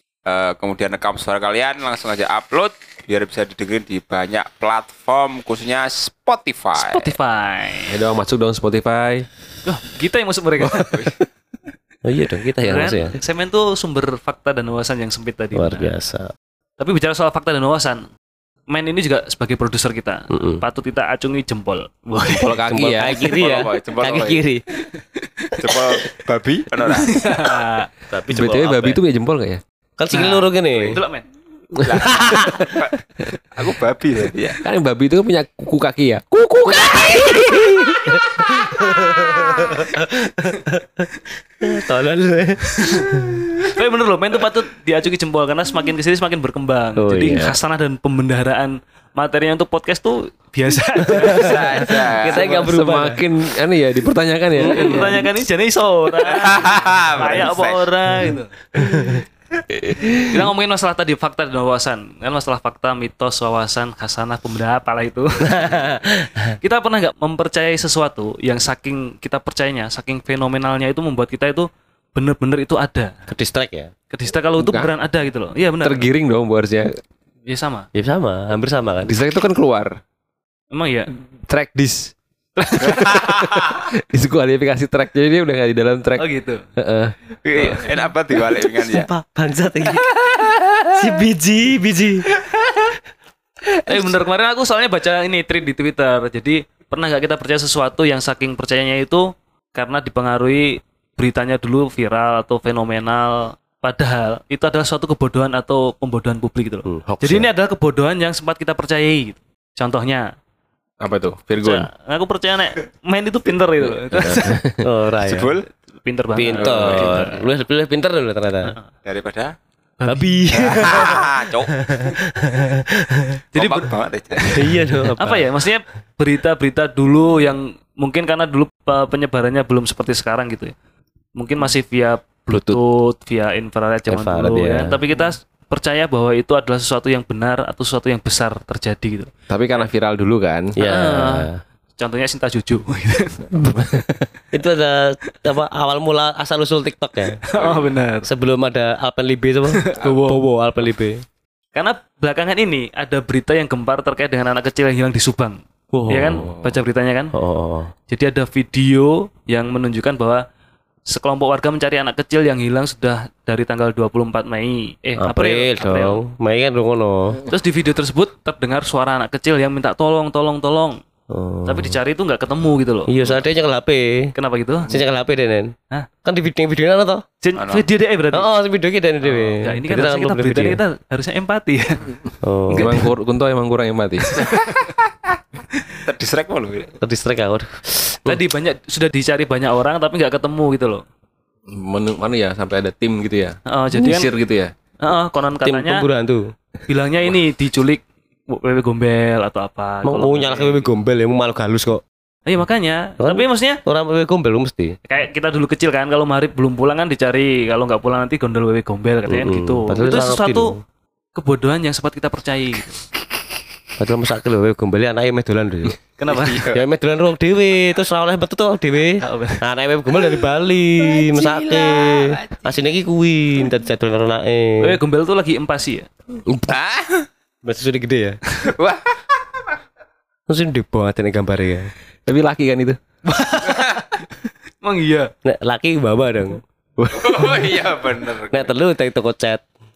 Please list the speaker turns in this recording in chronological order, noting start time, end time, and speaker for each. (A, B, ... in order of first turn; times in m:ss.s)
0:00.2-0:07.1 A
0:06.8-0:08.0 B
0:07.9-0:09.3 C
0:09.6-0:10.9 B
0:10.6-0:11.1 C
0:12.0-0:13.2 D
0:12.6-0:15.9 B
0:15.5-0:16.3 D
0:16.8-0:18.1 B
0:18.7-0:22.6 B
0:20.3-0:20.6 D
0:22.2-0:23.2 C
0:22.7-0:24.6 D
0:23.1-0:24.4 A
0:25.6-0:27.2 A
0:27.0-0:27.9 B
0:28.1-0:29.0 D
0:28.3-0:29.6 C
0:30.0-0:31.0 D
0:30.1-0:31.2 B
0:31.8-0:33.0 A
0:31.8-0:32.7 D
0:32.0-0:32.8 C
0:33.5-0:34.6 A
0:34.6-0:39.4 C
0:38.2-0:41.1 D
0:41.6-0:43.7 D
0:42.8-0:43.1 B
0:43.6-0:51.7 B
0:47.0-0:47.6 D
0:51.1-0:53.2 D
0:51.1-0:52.5 A
0:52.2-0:55.2 C
0:54.6-0:55.3 D
0:54.6-0:58.5 B
0:56.2-0:57.8 A
0:58.8-0:59.2 C
0:58.8-0:59.2 D
0:59.7-1:00.5 C
1:00.3-1:05.8 B
1:05.4-1:06.6 D
1:06.6-1:13.1 B
1:13.3-1:13.9 D
1:14.1-1:16.0 B
1:14.6-1:14.9 C
1:15.8-1:17.0 C
1:17.5-1:17.9 B
1:17.9-1:19.2 D
1:19.0-1:19.9 C
1:20.7-1:21.1 B
1:21.5-1:22.1 C
1:22.6-1:23.2 B
1:22.8-1:23.8 A
1:23.1-1:27.1 C
1:26.2-1:26.6 B
1:27.4-1:29.1 A
1:28.7-1:30.1 D
1:30.9-1:32.3 D
1:33.8-1:34.1 D
1:33.8-1:50.3 B
1:46.9-1:47.5 D
1:51.0-1:51.9 C
1:51.6-1:54.6 B
1:53.8-1:55.6 D
1:54.2-1:54.8 C
1:55.2-1:55.7 A
1:55.9-1:57.5 B
1:56.3-1:58.7 D
1:56.5-1:57.3 A
1:59.0-1:59.5 A
2:00.0-2:03.4 D
2:00.1-2:00.7 B
2:00.6-2:01.8 A
2:03.5-2:03.9 B
2:03.5-2:04.8 A
2:04.5-2:05.5 D
2:05.2-2:10.7 B
2:11.4-2:19.8 B
2:12.5-2:12.8 D
2:14.1-2:15.0 D
2:19.5-2:20.7 C
2:20.8-2:21.6 D
2:20.8-2:23.5 B
2:23.5-2:24.3 C
2:24.5-2:27.4 D
2:27.4-2:28.3 B
2:27.5-2:27.9 A
2:28.2-2:31.2 D
2:29.8-2:30.4 B
2:31.7-2:37.3 B
2:35.9-2:36.5 D
2:37.3-2:37.9 D
2:38.1-2:40.4 B
2:41.1-2:46.2 B
2:45.2-2:47.4 D
2:47.5-2:51.0 B
2:51.3-2:52.0 D
2:51.6-2:53.1 B
2:53.1-2:54.3 D
2:54.3-2:54.9 B
2:54.9-2:57.2 D
2:57.4-2:58.5 B
2:57.6-2:57.9 A
2:58.3-3:00.8 D
2:59.2-3:02.1 B
3:02.4-3:03.0 D
3:02.7-3:03.0 B
3:02.8-3:04.5 C
3:04.3-3:04.9 B
3:05.7-3:06.0 B
3:06.0-3:06.9 A
3:07.0-3:08.4 D
3:08.2-3:11.0 B
3:11.7-3:14.7 C
3:13.6-3:14.3 B
3:15.0-3:16.0 B
3:15.6-3:16.5 D
3:16.9-3:20.9 B
3:20.0-3:22.0 D
3:22.4-3:23.8 B
3:23.2-3:25.0 D
3:25.0-3:30.7 B
3:29.3-3:30.8 D
3:31.3-3:33.0 B
3:34.0-3:36.0 D
3:36.2-3:36.6 B
3:36.3-3:36.8 A
3:36.7-3:45.0 D
3:39.2-3:39.6 B
3:41.0-3:42.6 A
3:44.8-3:46.1 B
3:46.4-3:46.7 D
3:46.7-3:47.3 A
3:47.6-3:48.4 D
3:48.6-3:49.2 A
3:50.5-3:51.9 D
3:52.2-3:53.0 C
3:53.2-3:54.0 B
3:53.7-3:54.0 A
3:54.8-3:55.3 B
3:55.4-3:56.6 D
3:57.0-3:57.7 C
3:57.1-3:58.7 A
3:58.5-3:59.7 D